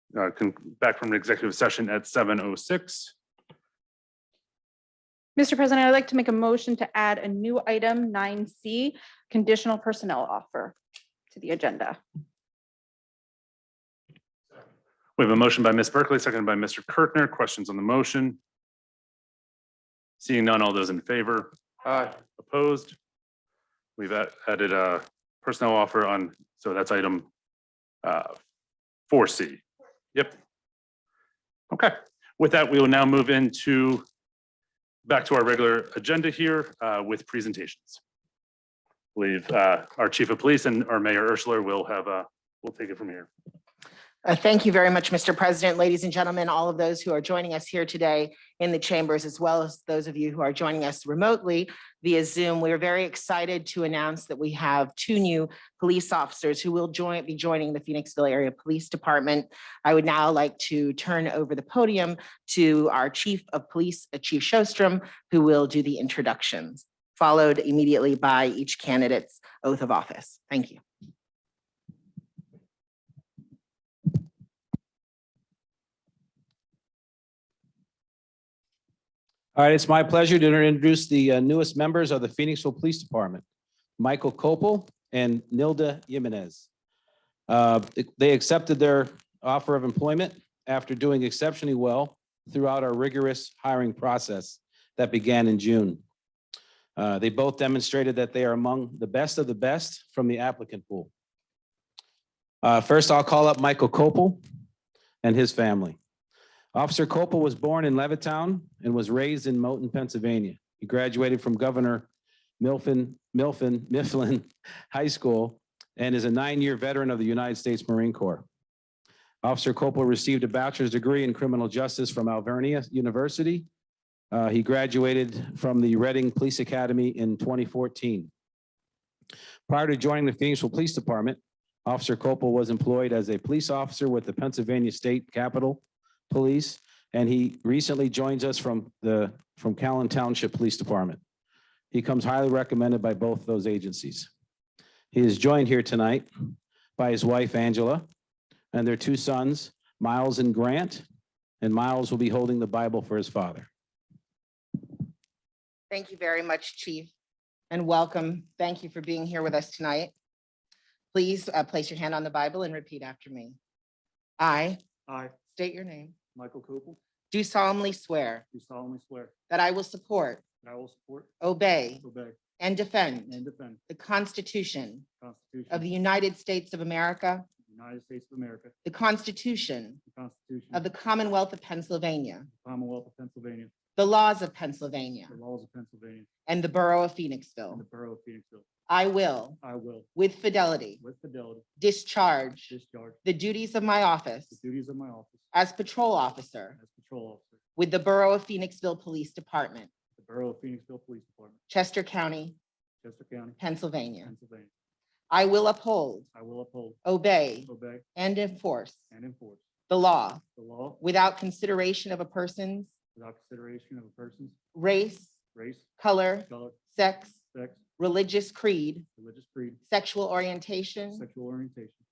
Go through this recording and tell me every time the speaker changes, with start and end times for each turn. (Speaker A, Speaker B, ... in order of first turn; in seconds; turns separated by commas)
Speaker A: 0.1-3.1, Speaker B: 5.4-10.8, Speaker B: 11.3-12.0, Speaker A: 15.2-18.4, Speaker A: 20.2-23.0, Speaker A: 24.0-27.3, Speaker A: 28.0-28.4, Speaker A: 29.1-29.6, Speaker A: 31.7-34.0, Speaker A: 35.0-38.0, Speaker A: 39.1-43.3, Speaker C: 44.2-70.8, Speaker D: 79.6-83.4, Speaker D: 84.0-86.7, Speaker D: 87.5-96.0, Speaker D: 97.0-101.1, Speaker D: 102.6-104.4, Speaker D: 105.2-106.0, Speaker D: 106.7-112.1, Speaker D: 112.6-118.5, Speaker D: 119.4-123.7, Speaker D: 124.3-128.3, Speaker D: 129.7-141.2, Speaker D: 141.9-144.3, Speaker D: 145.1-146.3, Speaker D: 147.0-148.1, Speaker D: 148.7-151.1, Speaker D: 151.6-153.7, Speaker C: 155.9-157.1, Speaker C: 157.7-160.1, Speaker C: 161.1-163.6, Speaker C: 164.4-164.8, Speaker E: 165.1-165.4, Speaker C: 165.5-166.2, Speaker E: 166.3-167.0, Speaker C: 167.3-168.4, Speaker E: 168.5-169.3, Speaker C: 169.5-170.4, Speaker E: 170.6-171.3, Speaker C: 171.4-172.0, Speaker E: 172.0-172.4, Speaker C: 172.6-173.4, Speaker E: 173.3-173.8, Speaker C: 173.9-175.1, Speaker E: 175.2-175.9, Speaker C: 175.7-177.5, Speaker E: 177.7-178.7, Speaker C: 178.8-180.0, Speaker E: 180.1-180.8, Speaker C: 180.7-182.5, Speaker E: 182.6-183.7, Speaker C: 184.0-185.3, Speaker E: 185.3-186.3, Speaker C: 186.5-187.8, Speaker E: 187.7-188.7, Speaker C: 188.9-189.6, Speaker E: 189.6-190.1, Speaker C: 190.2-191.0, Speaker E: 191.0-191.7, Speaker C: 191.8-194.6, Speaker E: 192.7-193.2, Speaker E: 194.5-195.5, Speaker C: 195.5-196.8, Speaker E: 196.8-197.6, Speaker C: 197.8-199.9, Speaker E: 200.2-201.6, Speaker C: 201.7-202.6, Speaker E: 203.0-203.6, Speaker C: 203.6-204.3, Speaker E: 204.2-204.7, Speaker C: 205.3-206.3, Speaker E: 206.3-207.0, Speaker C: 207.1-209.1, Speaker E: 207.6-208.1, Speaker E: 209.1-209.6, Speaker C: 209.9-210.4, Speaker E: 210.6-211.0, Speaker C: 211.0-212.9, Speaker E: 213.2-214.6, Speaker C: 214.8-215.3, Speaker E: 215.5-215.9, Speaker C: 216.0-217.3, Speaker E: 216.5-217.8, Speaker C: 218.0-219.1, Speaker E: 219.2-219.8, Speaker C: 219.9-221.2, Speaker E: 221.1-222.0